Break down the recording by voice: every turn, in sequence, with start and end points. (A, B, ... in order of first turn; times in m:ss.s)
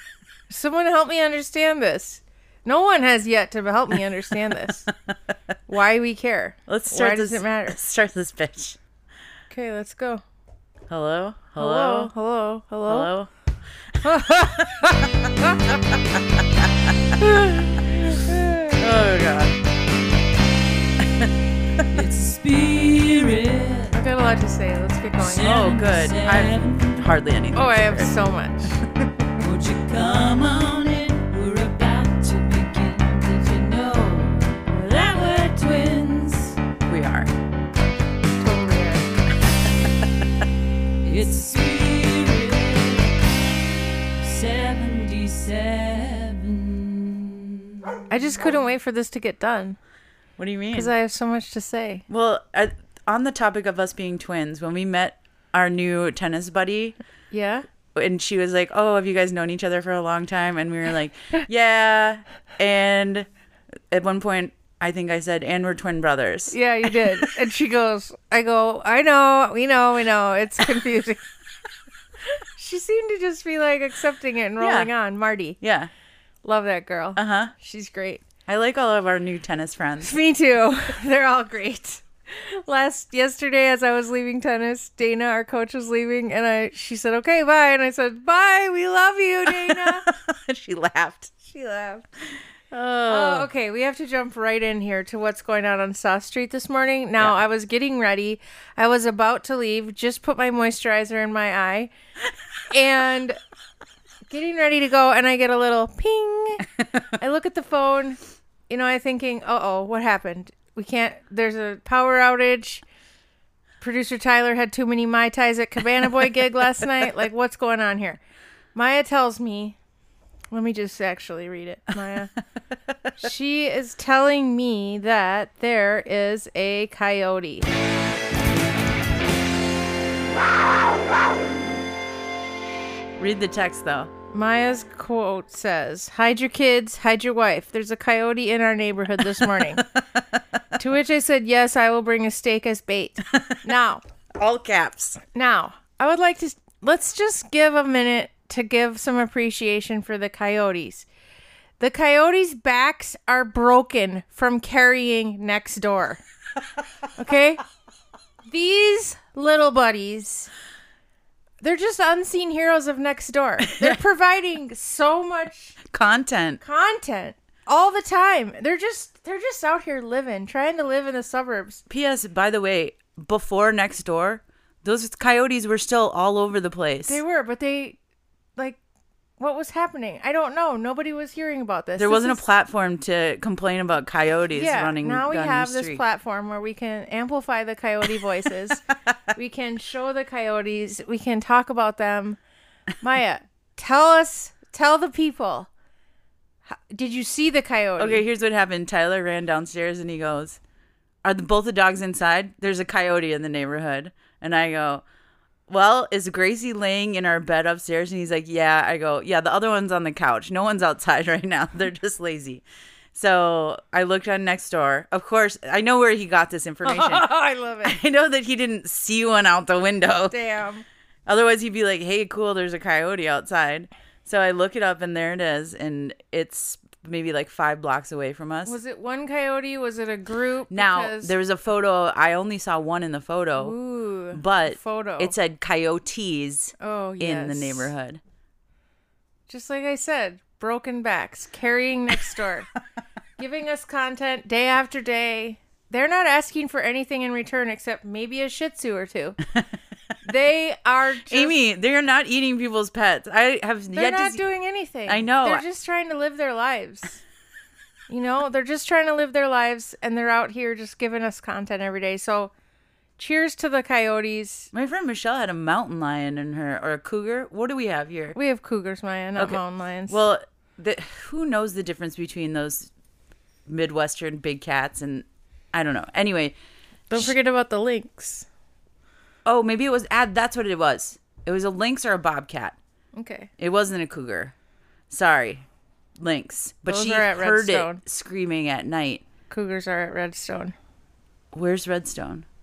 0:00.5-0:04.9 A
0:05.7-0:07.8 A
0:06.7-0:08.8 B
0:09.5-0:10.2 A
0:10.9-0:12.1 B
0:11.6-0:13.1 A
0:12.9-0:13.3 B
0:13.9-0:15.3 B
0:14.0-0:14.7 A
0:16.1-0:16.9 B
0:17.2-0:18.8 A
0:18.8-0:19.6 B
0:21.0-0:22.0 B
0:21.9-0:24.0 C
0:23.9-0:25.6 A
0:25.2-0:27.0 C
0:25.4-0:28.2 B
0:27.6-0:28.8 A
0:29.4-0:36.6 C
0:36.9-0:37.3 B
0:38.4-0:39.2 A
0:39.5-0:40.1 B
0:41.0-0:43.2 C
0:44.2-0:46.8 C
0:48.1-0:49.8 A
0:50.4-0:50.9 B
0:50.7-0:52.0 A
0:52.1-0:57.0 B
0:57.3-0:57.6 A
0:57.9-1:03.3 B
1:03.9-1:07.3 B
1:06.5-1:11.2 A
1:12.4-1:15.6 A
1:14.6-1:14.9 B
1:15.6-1:15.9 B
1:16.4-1:18.2 A
1:17.2-1:17.5 B
1:18.5-1:20.2 B
1:20.0-1:30.0 A
1:29.4-1:31.4 B
1:31.4-1:32.1 A
1:32.7-1:33.5 B
1:33.1-1:41.9 A
1:42.7-1:43.4 A
1:44.3-1:52.8 A
1:53.8-1:58.2 A
1:58.7-1:59.8 A
2:00.5-2:02.3 A
2:03.2-2:07.7 A
2:13.2-2:14.1 B
2:14.3-2:19.8 A
2:19.8-2:20.2 B
2:20.8-2:24.0 A
2:23.3-2:23.6 B
2:24.4-2:25.2 B
2:25.2-2:31.1 A
2:31.8-2:36.2 A
2:37.2-2:37.6 A
2:38.5-2:40.5 A
2:41.6-2:45.8 A
2:43.7-2:44.0 B
2:45.9-2:46.6 B
2:46.6-2:51.8 A
2:51.9-2:57.2 B
2:57.1-2:58.0 A
2:59.4-3:02.4 A
3:02.0-3:06.0 B
3:04.5-3:08.8 A
3:09.3-3:12.4 A
3:13.0-3:15.7 A
3:16.7-3:18.2 A
3:18.0-3:20.6 B
3:21.2-3:25.0 B
3:25.7-3:32.6 B
3:33.1-3:37.3 B
3:36.8-3:38.0 A
3:37.8-3:40.4 B
3:40.3-3:40.8 A
3:41.2-3:48.8 B
3:48.6-3:51.3 A
3:50.7-3:53.8 B
3:53.6-3:55.3 A
3:54.3-3:58.2 B
3:56.8-3:57.9 A
3:59.5-4:02.7 A
4:03.4-4:09.4 A
4:10.2-4:11.6 A
4:11.2-4:14.4 B
4:13.9-4:17.2 A
4:15.1-4:15.6 B
4:18.1-4:22.5 A
4:23.2-4:24.7 A
4:24.7-4:28.4 B
4:28.3-4:30.2 A
4:29.4-4:32.9 B
4:33.7-4:36.6 B
4:37.1-4:38.4 A
4:39.4-4:42.8 B
4:43.2-4:43.5 A
4:43.6-4:44.5 B
4:45.1-4:45.6 B
4:46.2-4:49.2 B
4:46.9-4:48.0 A
4:49.5-4:50.8 A
4:51.5-4:52.4 B